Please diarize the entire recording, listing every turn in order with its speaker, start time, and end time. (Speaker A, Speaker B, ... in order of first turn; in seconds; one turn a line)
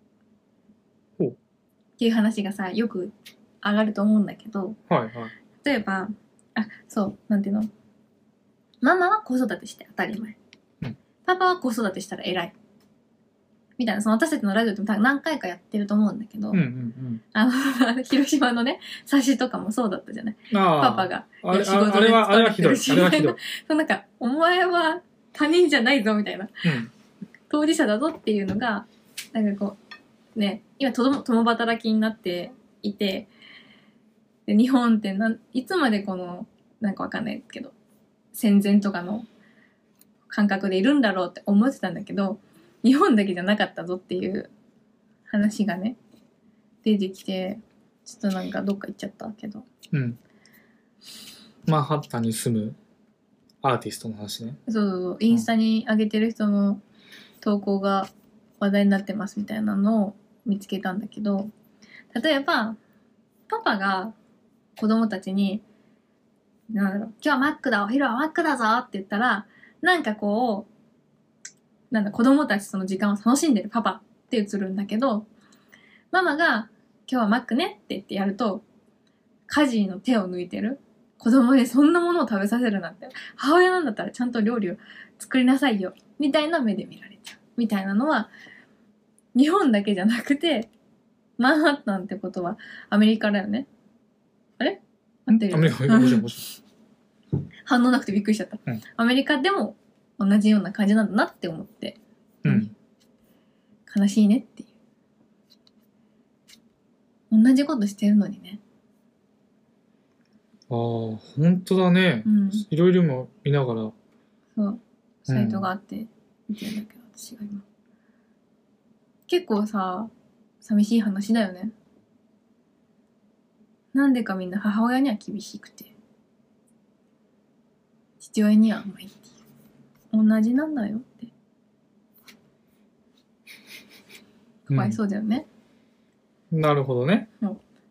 Speaker A: 2.0-4.8
Speaker B: 4.9-5.3
Speaker A: 5.6-7.7
Speaker A: 8.8-10.3
Speaker A: 11.2-12.5
Speaker A: 13.8-16.6
Speaker B: 16.5-17.2
Speaker A: 17.3-26.6
Speaker B: 20.5-23.4
Speaker B: 26.6-26.9
Speaker A: 27.5-29.8
Speaker A: 30.3-33.3
Speaker A: 34.5-37.7
Speaker A: 38.3-39.3
Speaker A: 40.3-44.5
Speaker A: 45.3-46.0
Speaker A: 46.8-49.7
Speaker B: 49.9-50.2
Speaker B: 51.7-52.8
Speaker B: 53.6-54.6
Speaker A: 54.6-56.8
Speaker A: 57.4-61.5
Speaker A: 62.1-62.8
Speaker A: 63.5-64.1
Speaker A: 64.8-65.6
Speaker A: 66.7-70.7
Speaker A: 71.9-75.3
Speaker A: 76.1-78.6
Speaker A: 79.5-88.3
Speaker A: 89.3-90.7
Speaker A: 91.4-93.7
Speaker A: 94.6-96.5
Speaker B: 95.3-96.4
Speaker A: 97.7-102.7
Speaker B: 102.4-102.7
Speaker A: 103.9-104.7
Speaker A: 107.3-108.6
Speaker B: 110.7-113.9
Speaker A: 112.2-112.6
Speaker A: 114.5-117.6
Speaker B: 115.3-115.7
Speaker A: 119.3-120.1
Speaker A: 120.6-121.7
Speaker A: 123.9-125.9
Speaker A: 128.2-129.3
Speaker A: 130.1-131.3
Speaker A: 134.7-135.4
Speaker B: 134.7-135.0
Speaker B: 136.5-137.3